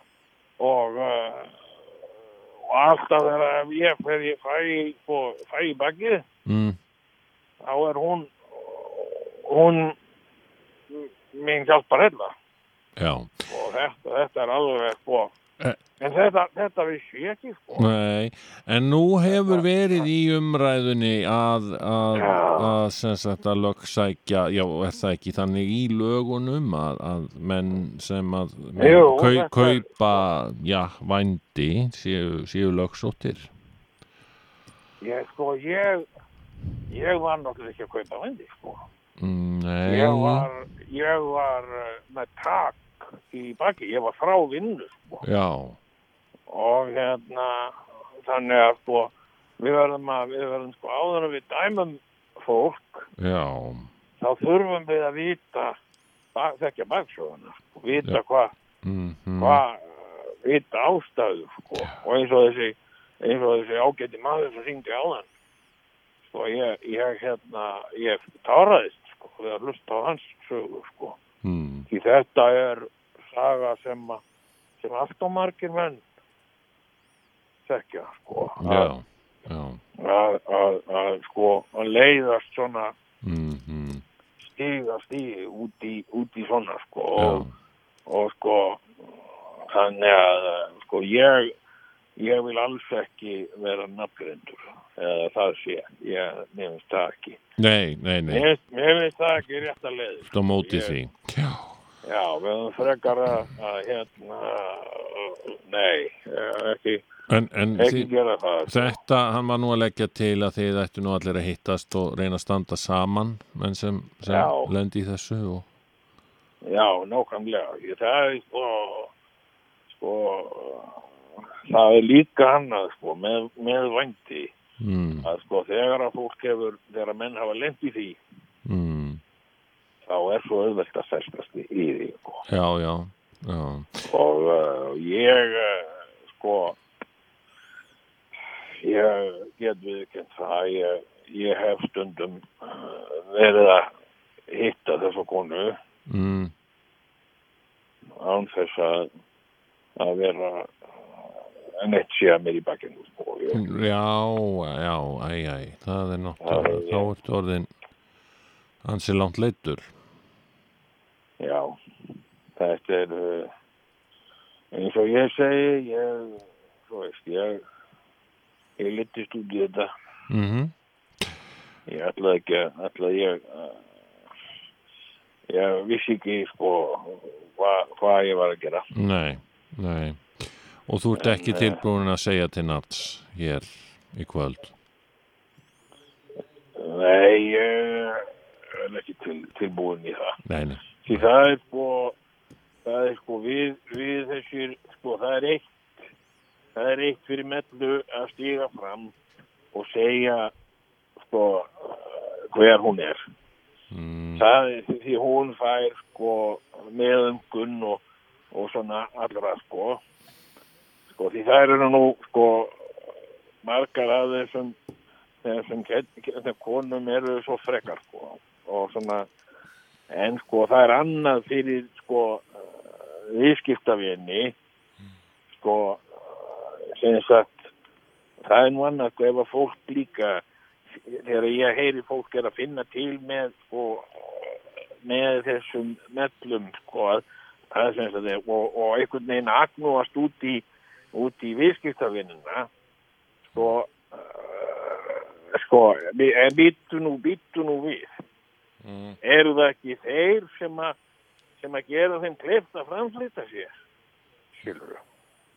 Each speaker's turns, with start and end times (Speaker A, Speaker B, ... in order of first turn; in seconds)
Speaker A: 0.6-1.6, 2.7-6.2, 7.6-10.0, 10.9-12.3, 13.5-15.3, 16.0-17.9, 19.3-19.6, 22.1-22.8, 28.8-29.9, 35.0-36.0, 36.9-38.8, 39.9-45.2, 46.5-53.1, 54.2-55.8, 56.3-58.5, 59.4-65.3, 66.2-71.2, 71.9-74.2, 74.8-76.0, 77.7-78.9, 80.0-82.9, 84.5-87.5, 88.1-88.8, 89.7-91.5, 92.2-97.4, 98.3-101.0, 102.0-107.0, 107.8-109.0, 114.3-114.7, 116.6-119.1, 119.9-121.0, 121.7-124.5, 125.2-128.2, 130.0-132.4, 134.1-136.8, 138.8-143.9, 144.5-145.8, 148.2-149.1, 150.0-150.7, 151.8-153.6, 156.4-157.1, 161.4-161.8, 162.6-163.5, 164.7-167.6, 168.8-169.9, 171.9-173.8, 175.5-178.9, 181.2-181.8, 186.8-190.4, 191.1-192.2, 192.8-195.7, 196.8-199.1, 199.7-200.5, 201.2-203.2, 204.4-210.0, 211.1-212.8, 213.6-214.8, 215.4-219.3, 220.1-224.6, 225.5-227.7, 228.4-230.4, 231.0-242.7, 243.5-248.1, 249.2-250.9, 251.6-253.8, 254.6-255.0
Speaker B: 6.5-6.8, 13.0-13.4, 17.8-33.5, 39.2-40.5, 45.2-45.8, 53.2-53.9, 58.8-59.6, 71.4-71.9, 78.6-79.8, 83.2-84.0, 87.2-87.5, 97.6-98.5, 100.3-101.7, 107.3-108.1, 108.7-115.7, 124.8-125.3, 128.7-129.2, 132.5-134.0, 146.1-146.5, 153.5-157.7, 158.8-159.8, 170.3-170.7, 178.9-184.7, 190.5-191.2, 203.9-204.5, 248.8-249.2